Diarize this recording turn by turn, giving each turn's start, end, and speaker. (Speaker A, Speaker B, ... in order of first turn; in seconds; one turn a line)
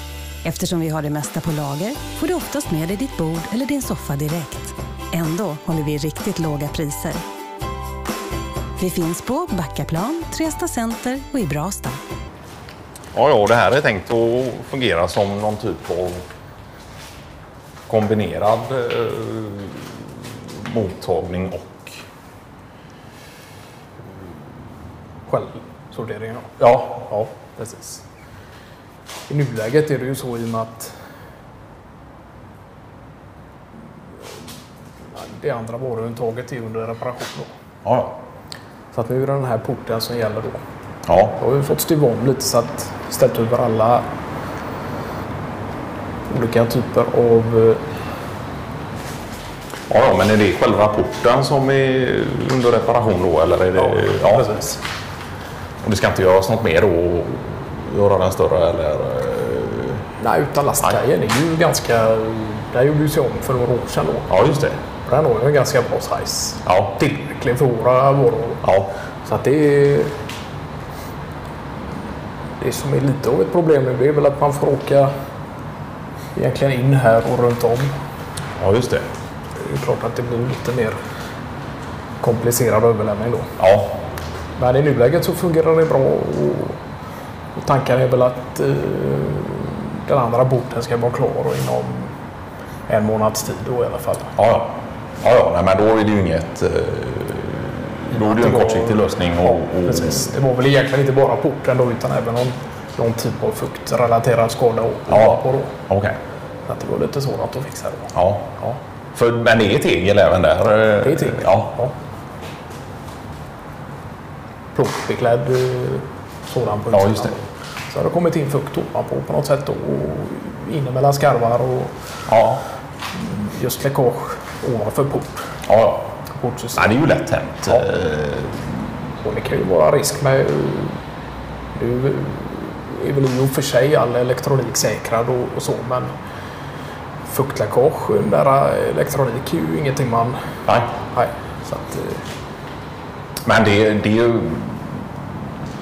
Speaker A: 0.4-7.2
Speaker A: 8.8-12.0
Speaker B: 13.1-16.3
Speaker B: 17.9-22.0
Speaker C: 25.3-28.0
Speaker B: 26.6-26.9
Speaker C: 29.3-30.9
Speaker C: 35.1-37.5
Speaker B: 37.8-38.2
Speaker C: 38.9-40.6
Speaker B: 41.0-41.4
Speaker C: 41.3-44.1
Speaker C: 46.3-47.8
Speaker B: 49.9-54.5
Speaker C: 53.8-54.8
Speaker B: 55.8-60.0
Speaker C: 60.2-64.4
Speaker B: 64.3-64.8
Speaker C: 65.0-68.6
Speaker B: 66.6-67.0
Speaker B: 68.6-68.9
Speaker C: 69.2-70.2
Speaker C: 72.6-75.1
Speaker C: 76.3-77.9
Speaker B: 78.6-79.1
Speaker C: 79.6-81.0
Speaker C: 82.2-83.5
Speaker B: 83.6-84.0
Speaker C: 84.6-86.8
Speaker C: 87.5-92.1
Speaker C: 92.9-94.3
Speaker B: 94.3-100.3
Speaker C: 98.1-105.8
Speaker B: 105.1-106.2
Speaker C: 106.7-108.8
Speaker B: 108.1-108.6
Speaker B: 109.1-111.7
Speaker C: 111.0-111.9
Speaker C: 114.7-121.9
Speaker B: 116.9-117.3
Speaker B: 122.3-122.6
Speaker C: 123.1-125.4
Speaker B: 125.7-126.1
Speaker C: 126.3-127.0
Speaker B: 126.7-128.7
Speaker C: 129.2-131.0
Speaker C: 131.7-136.1
Speaker C: 137.2-140.4
Speaker B: 140.7-140.9
Speaker C: 141.0-142.2
Speaker B: 143.4-145.0